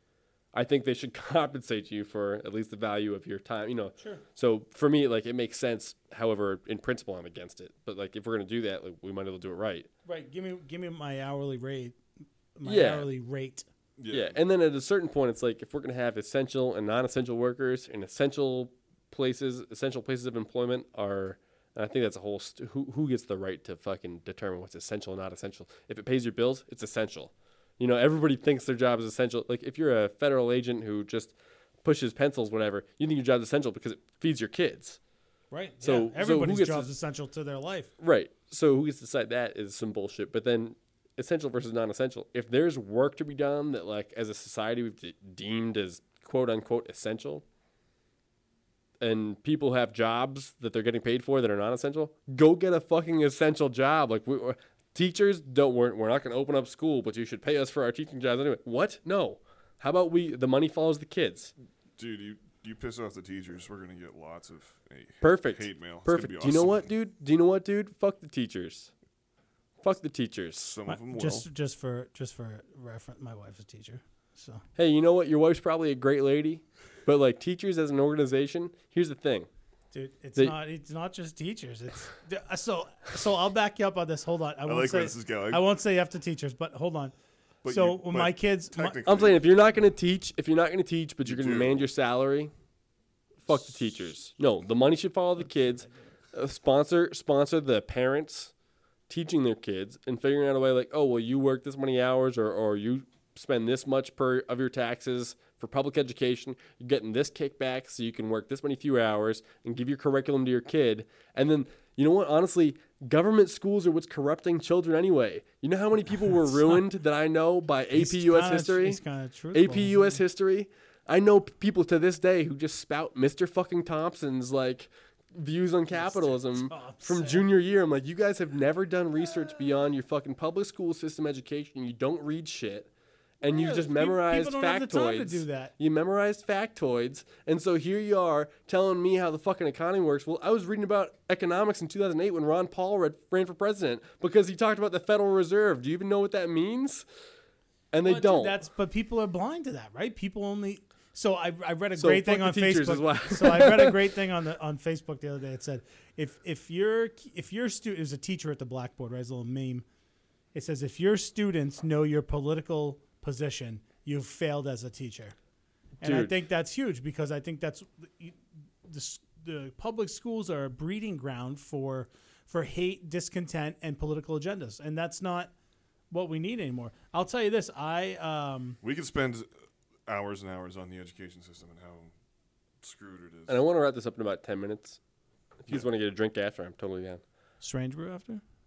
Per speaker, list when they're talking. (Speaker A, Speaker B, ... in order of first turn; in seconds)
Speaker A: 0.5-9.9, 12.7-13.1, 14.1-35.0, 35.8-36.9, 38.0-47.4, 49.0-61.5, 65.2-68.9, 69.8-70.8, 74.8-79.5, 89.0-92.5, 93.5-98.5, 99.1-119.0, 119.5-132.9, 133.4-147.1, 147.9-148.6, 152.0-154.0, 166.0-166.3, 183.5-185.0, 185.6-187.2
Speaker B: 10.1-12.0, 12.6-13.7, 35.5-37.9, 70.9-74.6, 79.9-87.1, 87.7-89.0, 117.9-120.2, 125.9-127.5, 133.4-135.7, 148.0-159.8, 160.5-165.3, 166.0-175.5, 176.1-178.8, 187.6-188.4
Speaker C: 14.0-14.4, 62.0-66.9, 70.6-71.5, 84.7-85.6, 87.6-89.5, 91.2-91.9, 178.8-179.5, 180.1-182.1, 182.8-183.6